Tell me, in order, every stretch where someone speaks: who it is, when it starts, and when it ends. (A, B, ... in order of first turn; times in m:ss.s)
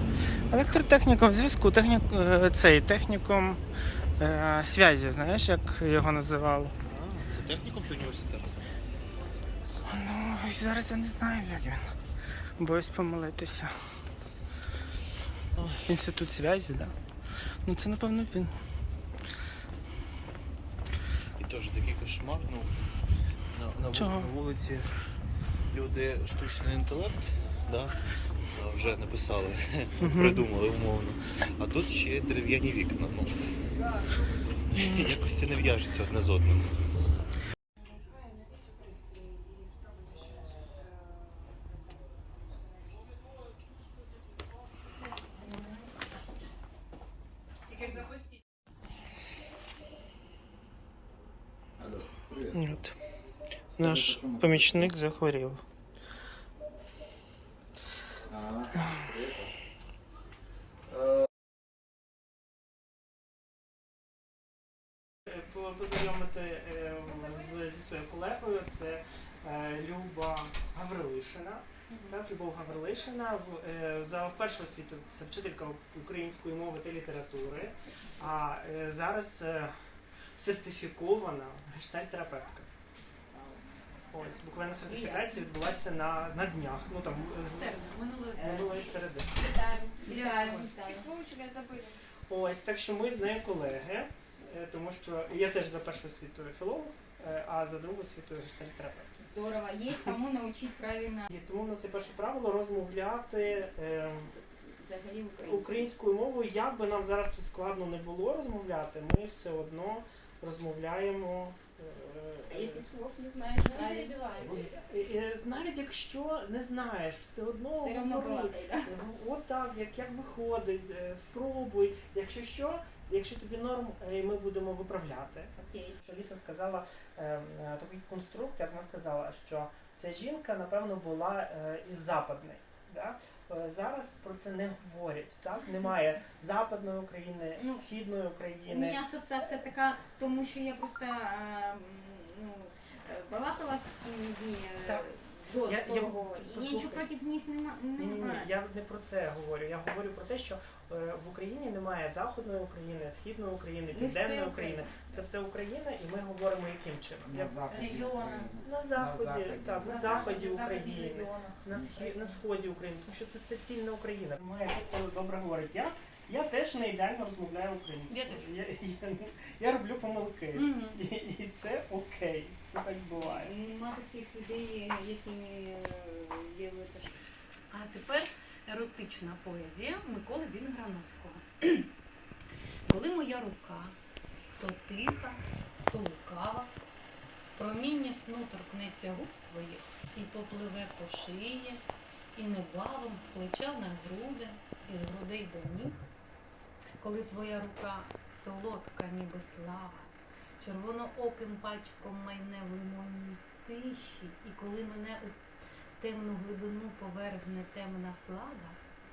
0:00.3-0:03.6 A
0:04.2-0:06.8 A
0:06.9-0:08.5 B
0:09.9-0:11.9 A
0:12.6-0:13.7 A
0:15.6-0:15.9 B
0:15.8-0:16.9 A
0:17.6-0:18.5 A
0:21.4-0:22.8 B
0:23.5-0:24.9 B
0:23.9-0:24.3 A
0:25.7-0:28.0 B
0:28.5-0:33.4 B
0:30.0-0:30.4 A
0:34.7-0:36.8 B
0:34.8-0:35.0 A
0:52.5-0:53.0 A
0:53.8-0:55.6 A
0:58.7-0:59.1 A
1:05.2-1:19.7 A
1:20.3-1:22.7 A
1:24.1-1:27.8 A
1:24.8-1:25.2 C
1:27.5-1:28.5 D
1:28.3-1:29.3 A
1:28.3-1:32.0 C
1:30.0-1:30.8 D
1:32.3-1:39.2 A
1:39.2-1:41.3 C
1:41.3-1:44.3 A
1:44.1-1:45.9 C
1:45.4-1:52.9 A
1:52.5-1:54.8 C
1:54.6-2:19.0 A
1:57.8-1:58.9 C
2:05.6-2:06.0 C
2:17.6-2:17.8 C
2:18.6-2:28.5 C
2:24.8-2:25.1 A
2:25.6-2:27.1 A
2:28.0-2:37.7 A
2:33.9-2:34.9 C
2:37.7-2:38.6 C
2:38.6-2:53.5 A
2:39.8-2:41.6 C
2:48.1-2:48.5 D
2:50.5-2:51.0 D
2:53.2-2:57.1 C
2:57.7-3:01.8 D
3:02.8-3:04.0 D
3:04.6-3:06.7 D
3:07.6-3:16.0 D
3:17.0-3:25.4 D
3:26.0-3:28.8 D